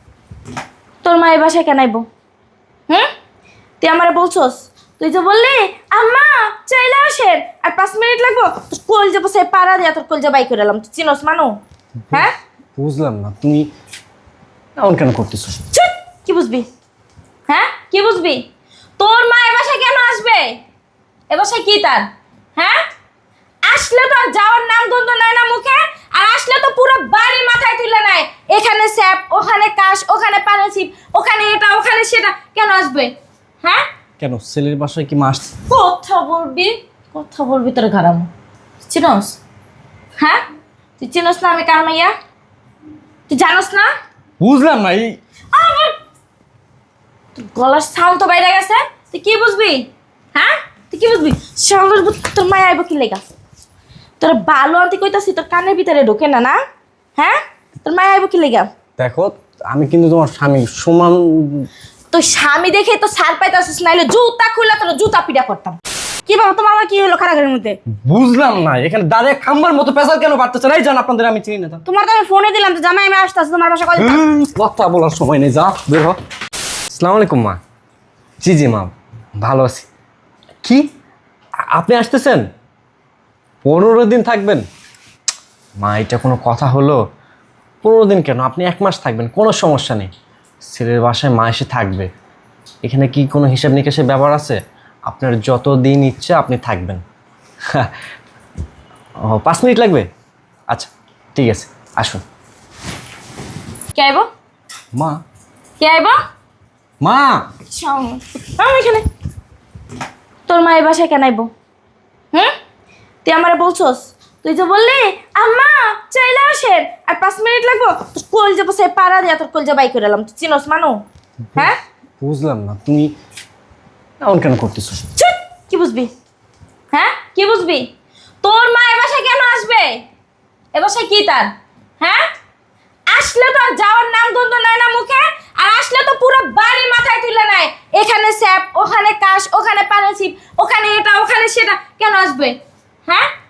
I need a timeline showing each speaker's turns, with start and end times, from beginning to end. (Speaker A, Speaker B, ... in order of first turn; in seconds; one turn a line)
Speaker A: 1.0-2.1
Speaker A: 3.8-11.6
Speaker B: 12.1-13.7
Speaker B: 14.8-15.6
Speaker A: 15.7-16.7
Speaker A: 17.5-18.4
Speaker A: 19.0-20.6
Speaker A: 21.3-22.8
Speaker A: 23.7-33.9
Speaker B: 34.2-35.5
Speaker A: 35.7-38.3
Speaker A: 38.9-39.4
Speaker A: 40.2-40.4
Speaker A: 41.0-42.1
Speaker A: 43.3-43.9
Speaker B: 44.4-45.2
Speaker A: 45.5-46.0
Speaker A: 47.4-53.2
Speaker A: 54.2-56.6
Speaker A: 57.2-58.7
Speaker B: 59.0-61.7
Speaker A: 62.1-65.8
Speaker C: 66.3-67.8
Speaker B: 68.0-71.8
Speaker C: 71.8-74.2
Speaker B: 74.0-76.2
Speaker B: 76.9-77.6
Speaker B: 78.4-79.9
Speaker B: 81.7-82.5
Speaker B: 83.6-84.7
Speaker B: 85.8-87.0
Speaker B: 87.8-90.1
Speaker B: 90.7-92.1
Speaker B: 92.8-97.0
Speaker B: 99.2-100.1
Speaker B: 100.7-102.2
Speaker A: 103.9-104.3
Speaker B: 105.0-105.2
Speaker A: 105.8-106.2
Speaker B: 107.0-107.5
Speaker A: 107.7-109.0
Speaker A: 110.5-111.5
Speaker A: 113.2-121.0
Speaker B: 121.5-123.1
Speaker B: 124.2-125.0
Speaker A: 125.2-126.1
Speaker A: 126.9-127.9
Speaker A: 128.4-130.0
Speaker A: 130.7-132.3
Speaker A: 133.1-143.3